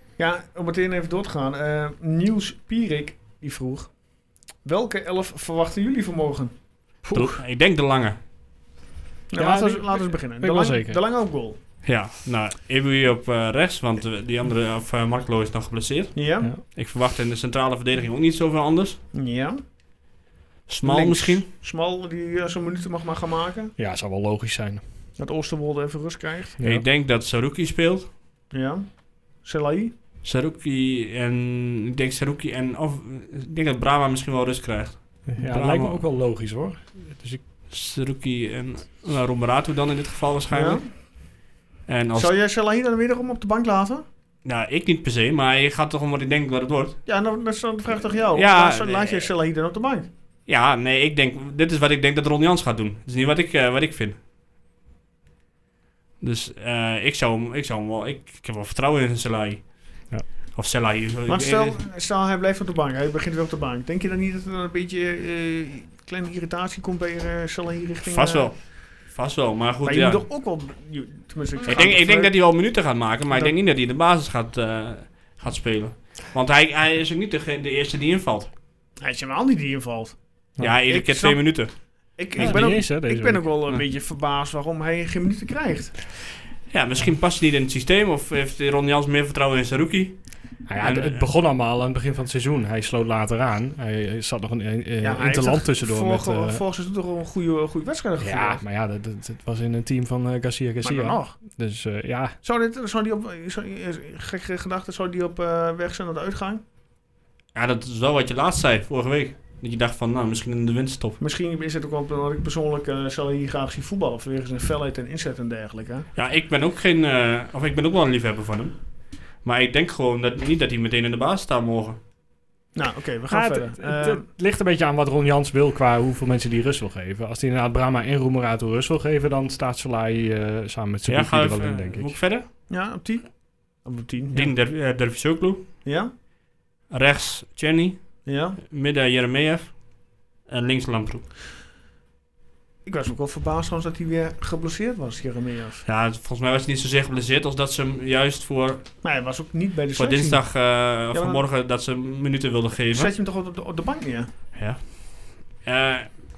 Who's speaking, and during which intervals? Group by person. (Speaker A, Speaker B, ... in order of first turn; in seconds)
Speaker A: 0.2-6.6, 9.3-11.6, 16.1-16.5, 19.1-19.6, 20.8-23.7, 25.2-26.6, 28.5-29.9, 40.5-40.9, 42.1-44.0, 47.0-50.1, 61.3-68.6, 69.8-72.8, 73.3-73.5, 79.0-85.9, 95.0-98.6, 100.8-101.3, 102.4-106.6, 111.2-116.0, 122.7-124.2, 132.7-134.5, 135.8-136.1, 138.2-138.6, 142.8-145.8, 149.0-151.4, 152.9-154.3
Speaker B: 7.0-7.4, 9.4-11.0, 23.8-24.8, 26.6-26.8, 35.3-37.4, 82.4-83.6, 90.7-96.6, 98.2-102.4, 123.3-132.2
Speaker C: 7.1-8.2, 11.8-19.0, 20.7-21.5, 26.6-28.1, 30.2-36.0, 37.7-41.1, 41.9-42.3, 44.4-47.0, 48.3-49.3, 50.5-54.2, 56.2-61.8, 68.0-70.2, 71.7-78.5, 80.6-81.7, 86.7-91.3, 107.5-111.2, 116.1-122.0, 131.1-132.5, 134.3-135.7, 136.9-141.3, 145.8-149.1, 149.9-153.1, 154.5-156.2